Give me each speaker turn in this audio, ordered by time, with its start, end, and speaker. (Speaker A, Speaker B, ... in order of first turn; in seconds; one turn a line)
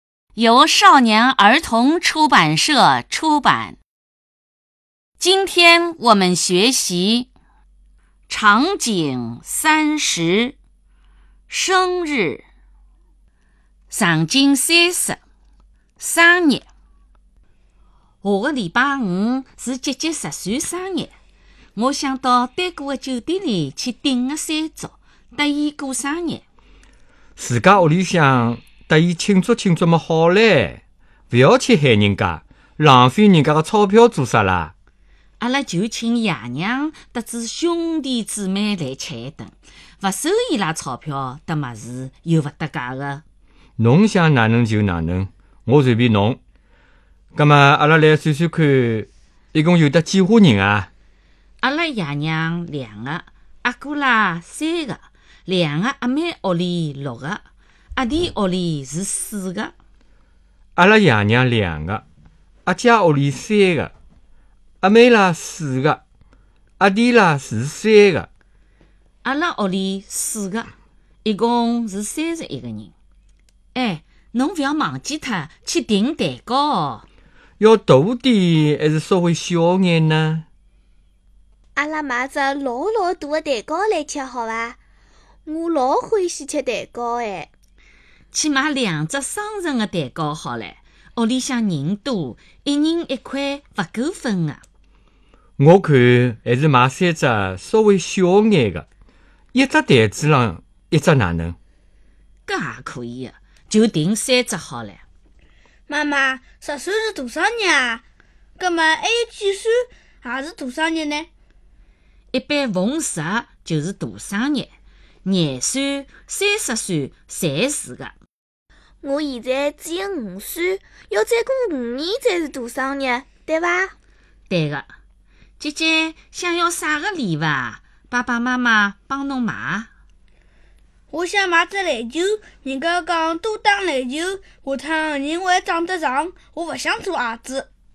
Speaker A: 0.3-3.8
Speaker A: 5.2-7.3
Speaker A: 8.3-10.6
Speaker A: 11.5-12.4
Speaker A: 13.9-15.2
Speaker A: 16.0-16.7
Speaker A: 18.2-21.1
Speaker A: 21.8-26.4
Speaker B: 27.4-34.7
Speaker A: 35.4-43.2
Speaker B: 43.8-46.4
Speaker B: 47.3-50.9
Speaker A: 51.6-57.4
Speaker A: 58.0-59.7
Speaker B: 60.8-62.0
Speaker B: 62.6-63.9
Speaker B: 64.8-66.0
Speaker B: 66.8-68.3
Speaker A: 69.2-70.7
Speaker A: 71.2-72.9
Speaker A: 73.8-77.0
Speaker B: 77.6-80.5
Speaker C: 81.8-84.8
Speaker C: 85.5-87.5
Speaker A: 88.3-94.6
Speaker B: 95.6-98.9
Speaker B: 99.5-101.6
Speaker A: 102.5-105.0
Speaker D: 105.9-108.0
Speaker D: 108.6-111.3
Speaker A: 112.3-114.7
Speaker A: 115.2-118.2
Speaker C: 119.0-123.9
Speaker A: 124.5-124.9
Speaker A: 125.6-129.9
Speaker D: 131.1-137.7